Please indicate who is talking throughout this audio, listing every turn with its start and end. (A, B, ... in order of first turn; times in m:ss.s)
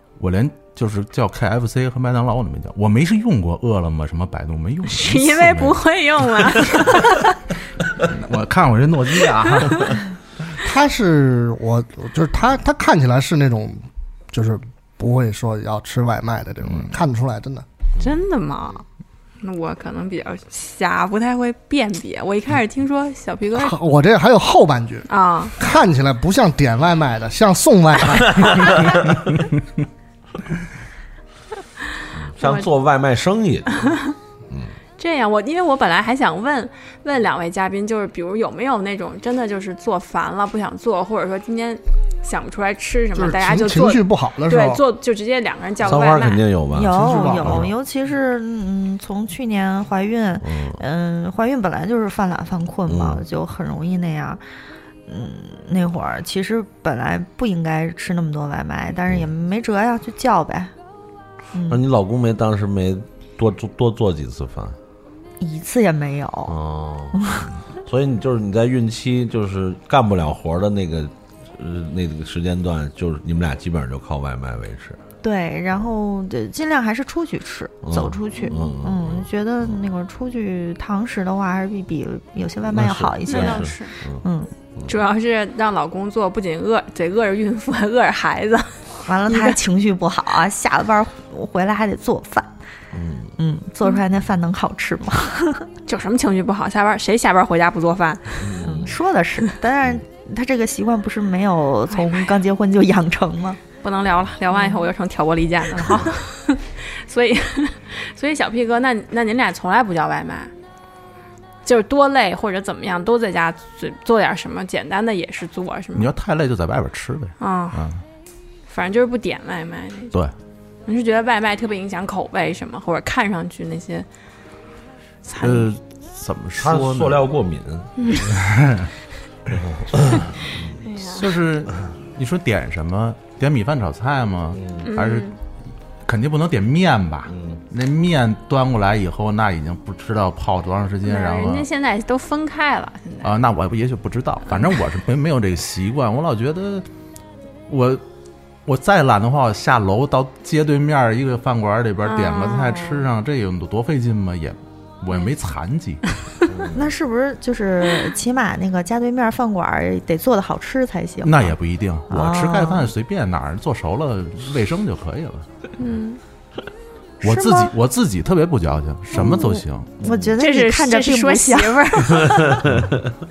0:00.2-0:05.8 A
0:04.8-0:07.4 B
0:08.0-0:10.0 A
0:10.6-0:17.6 C
0:16.7-0:17.0 A
0:18.0-0:18.8 B
0:19.4-0:23.8 B
0:23.5-0:28.5 C
0:25.1-0:25.5 B
0:28.4-0:29.0 D
0:29.2-0:29.6 A
0:32.1-0:33.9 D
0:32.4-0:32.7 B
0:33.8-0:34.1 B
0:34.5-0:34.7 D
0:35.0-0:46.4 B
0:43.1-0:44.8 C
0:45.8-0:47.7 D
0:46.7-0:54.4 E
0:46.8-0:47.7 C
0:50.4-0:50.8 D
0:52.9-0:53.2 D
0:55.1-1:00.7 E
1:01.5-1:01.8 E
1:01.7-1:04.8 D
1:05.4-1:06.6 E
1:06.5-1:15.0 D
1:07.1-1:07.4 E
1:15.2-1:24.5 E
1:17.8-1:19.8 D
1:22.7-1:24.2 D
1:23.3-1:24.0 B
1:24.9-1:29.6 B
1:29.0-1:32.5 E
1:32.9-1:33.3 D
1:33.4-1:35.7 E
1:35.8-1:38.5 B
1:38.4-1:39.0 D
1:38.6-1:43.6 E
1:43.8-1:50.5 B
1:44.5-1:44.8 E
1:51.6-1:56.1 B
1:55.9-1:58.0 A
1:57.4-1:57.8 B
1:58.7-2:00.1 B
2:00.8-2:04.0 B
2:05.2-2:05.7 B
2:05.4-2:07.3 A
2:06.6-2:08.1 D
2:08.2-2:08.9 A
2:09.5-2:10.8 D
2:10.8-2:11.3 B
2:11.0-2:15.3 A
2:14.6-2:14.9 D
2:14.8-2:15.3 B
2:16.0-2:21.7 A
2:17.2-2:17.6 D
2:21.0-2:23.3 B
2:23.2-2:26.8 A
2:27.7-2:28.0 A
2:28.6-2:36.0 A
2:32.0-2:33.0 B
2:36.4-2:36.9 D
2:36.7-2:41.5 E
2:41.2-2:45.5 A
2:42.1-2:42.9 E
2:45.8-2:46.2 B
2:47.2-2:49.9 A
2:47.3-2:47.6 E
2:49.1-2:52.1 E
2:50.0-2:50.3 D
2:50.4-2:52.6 B
2:52.2-2:52.9 D